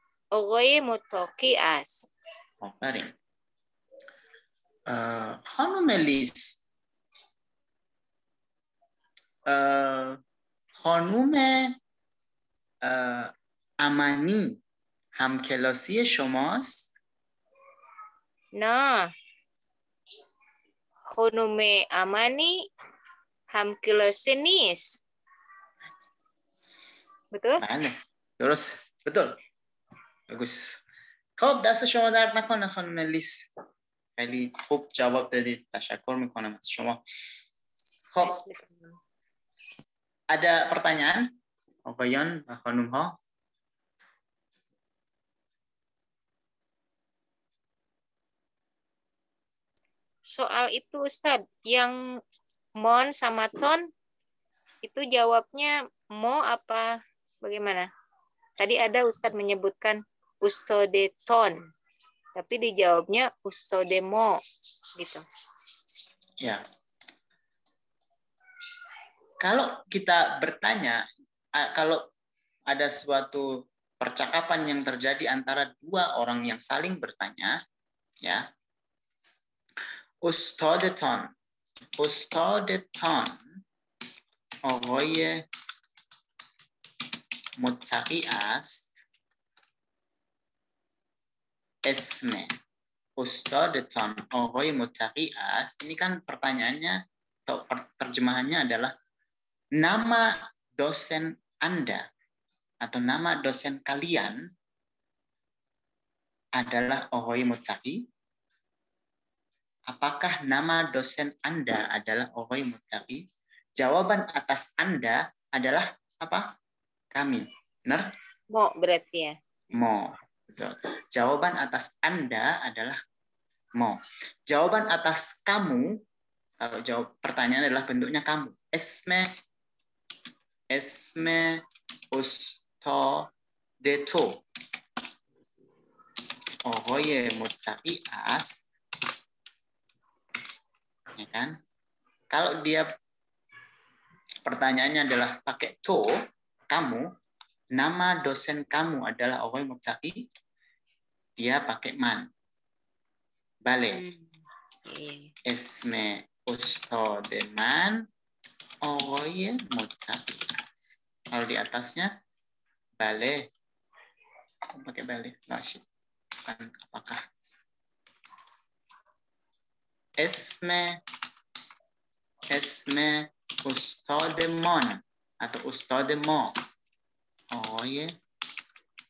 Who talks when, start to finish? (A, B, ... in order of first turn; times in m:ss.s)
0:00.3-0:02.1 A
0:02.6-0:03.1 B
0:04.9-0:06.6 B
0:09.5-0:10.2 B
0:10.8-0:11.8 B
0:12.8-0:14.6 B
0:15.2-0:16.9 B
0:18.6-0:19.1 A
0:21.1-0:22.6 A
0:23.5-0:25.0 A
0:27.3-0:27.6 A
0:27.6-0:29.4 B
0:30.3-0:30.8 B
0:31.4-0:33.4 B
0:34.2-0:37.0 B
0:38.1-0:38.4 B
0:38.2-0:39.0 A
0:40.3-0:41.3 B
0:41.8-0:43.1 B
0:50.3-0:52.0 A
0:52.8-0:53.9 A
0:54.8-0:57.9 A
0:58.6-1:01.6 A
1:02.4-1:04.4 A
1:05.0-1:05.2 A
1:09.4-1:11.0 B
1:11.6-1:12.0 B
1:12.7-1:13.5 B
1:14.0-1:17.6 B
1:20.2-1:21.3 B
1:22.0-1:23.4 B
1:24.6-1:25.4 B
1:27.6-1:28.9 B
1:31.8-1:32.5 B
1:33.2-1:38.9 B
1:39.8-1:42.0 B
1:42.8-1:44.4 B
1:46.6-1:48.0 B
1:49.9-1:53.2 B
1:53.8-1:56.4 B
1:57.1-1:58.0 B
1:58.5-1:59.3 A
1:59.7-2:03.0 B
2:03.8-2:05.9 B
2:06.6-2:09.3 B
2:10.7-2:13.3 B
2:13.8-2:14.4 B
2:16.6-2:18.6 B
2:21.1-2:21.6 B
2:22.3-2:22.9 B
2:24.4-2:26.1 B
2:26.7-2:27.1 B
2:27.7-2:30.2 B
2:31.4-2:32.3 B
2:33.6-2:34.0 B
2:33.9-2:34.2 A
2:34.8-2:35.3 A
2:35.4-2:38.0 B
2:38.8-2:42.1 B
2:43.0-2:43.4 B
2:44.7-2:45.8 B
2:46.4-2:47.2 B
2:50.2-2:51.0 B
2:52.5-2:56.5 B
2:57.5-2:58.2 B